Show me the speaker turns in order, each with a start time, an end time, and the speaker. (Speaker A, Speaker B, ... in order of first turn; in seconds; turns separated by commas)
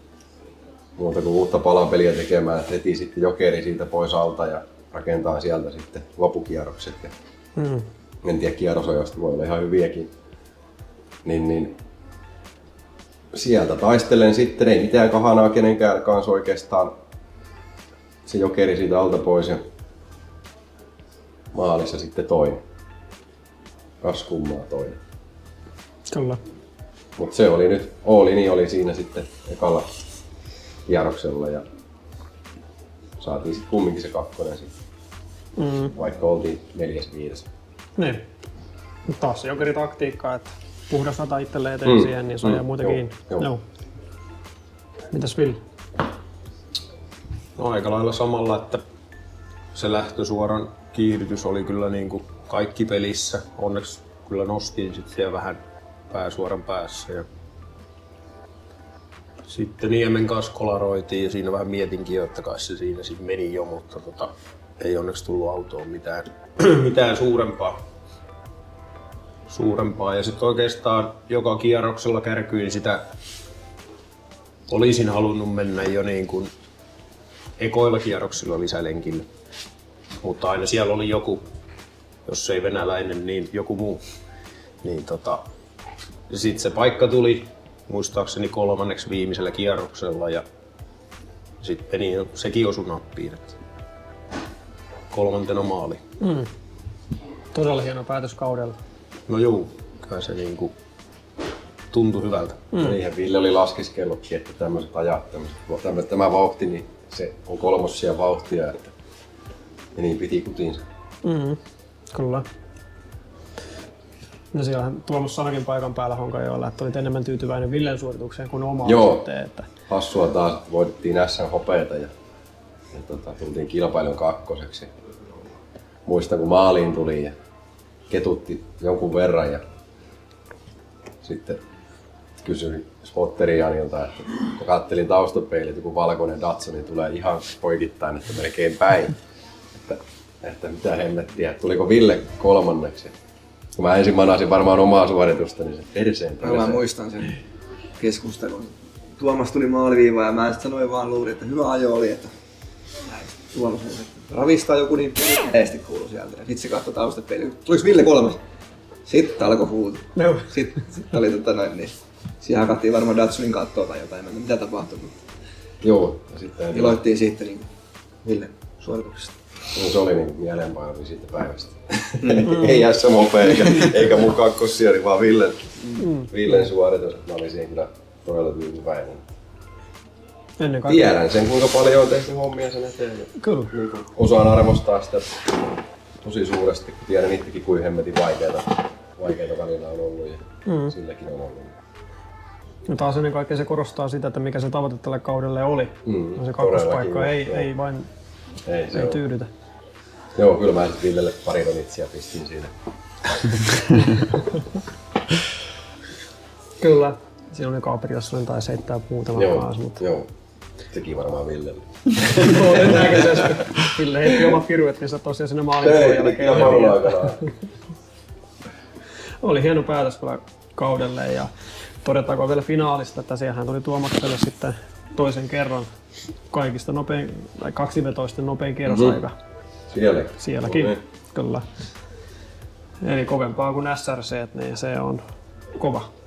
Speaker A: 1.0-7.1, Speaker B: 7.5-7.8, Speaker A: 8.2-10.1, Speaker A: 11.2-11.8, Speaker A: 13.3-16.9, Speaker A: 18.2-19.6, Speaker A: 21.5-22.6, Speaker A: 24.0-25.0, Speaker B: 26.1-26.4, Speaker A: 27.2-29.9, Speaker A: 30.9-31.6, Speaker A: 33.2-34.7, Speaker B: 35.6-35.9, Speaker A: 35.9-37.5, Speaker B: 38.0-38.2, Speaker B: 39.1-43.6, Speaker A: 41.8-43.5, Speaker B: 45.1-45.6, Speaker C: 47.5-48.8, Speaker C: 49.7-57.2, Speaker C: 59.5-67.8, Speaker C: 69.5-73.1, Speaker C: 74.7-76.5, Speaker C: 77.6-79.3, Speaker C: 80.2-81.4, Speaker C: 82.2-84.0, Speaker C: 84.8-85.4, Speaker C: 86.3-90.4, Speaker C: 91.6-93.6, Speaker C: 95.1-96.0, Speaker B: 96.2-96.5, Speaker B: 97.5-98.8, Speaker C: 99.3-100.7, Speaker C: 101.9-102.7, Speaker B: 102.7-103.0, Speaker A: 102.8-108.9, Speaker A: 109.9-110.8, Speaker B: 111.2-111.6, Speaker B: 112.1-112.5, Speaker B: 114.5-119.7, Speaker A: 118.8-119.2, Speaker A: 119.9-122.1, Speaker A: 122.9-124.9, Speaker A: 126.0-127.3, Speaker A: 128.1-129.6, Speaker A: 131.2-131.6, Speaker A: 132.4-139.2, Speaker A: 139.8-143.1, Speaker A: 143.8-146.8, Speaker D: 146.4-147.4, Speaker D: 148.0-152.3, Speaker D: 153.1-158.4, Speaker D: 159.1-165.1, Speaker B: 160.2-160.5, Speaker A: 165.8-167.0, Speaker D: 166.7-167.7, Speaker D: 168.2-169.3, Speaker A: 169.7-175.7, Speaker D: 172.2-172.7, Speaker B: 176.0-176.3, Speaker A: 176.2-179.3, Speaker B: 180.6-181.1, Speaker A: 180.8-185.5, Speaker B: 183.4-183.7, Speaker A: 186.2-191.8, Speaker B: 190.7-190.9, Speaker B: 192.9-198.1, Speaker A: 196.1-197.7, Speaker A: 198.7-199.2, Speaker B: 198.9-199.5, Speaker A: 200.3-202.7, Speaker B: 206.8-210.0, Speaker A: 209.3-210.3, Speaker A: 210.9-213.6, Speaker B: 212.3-217.3, Speaker A: 215.8-217.4, Speaker B: 219.4-221.5, Speaker B: 222.0-225.9, Speaker B: 226.5-229.3, Speaker A: 228.8-229.2, Speaker A: 229.9-231.0, Speaker B: 230.4-231.6, Speaker B: 233.0-235.2, Speaker B: 235.8-236.1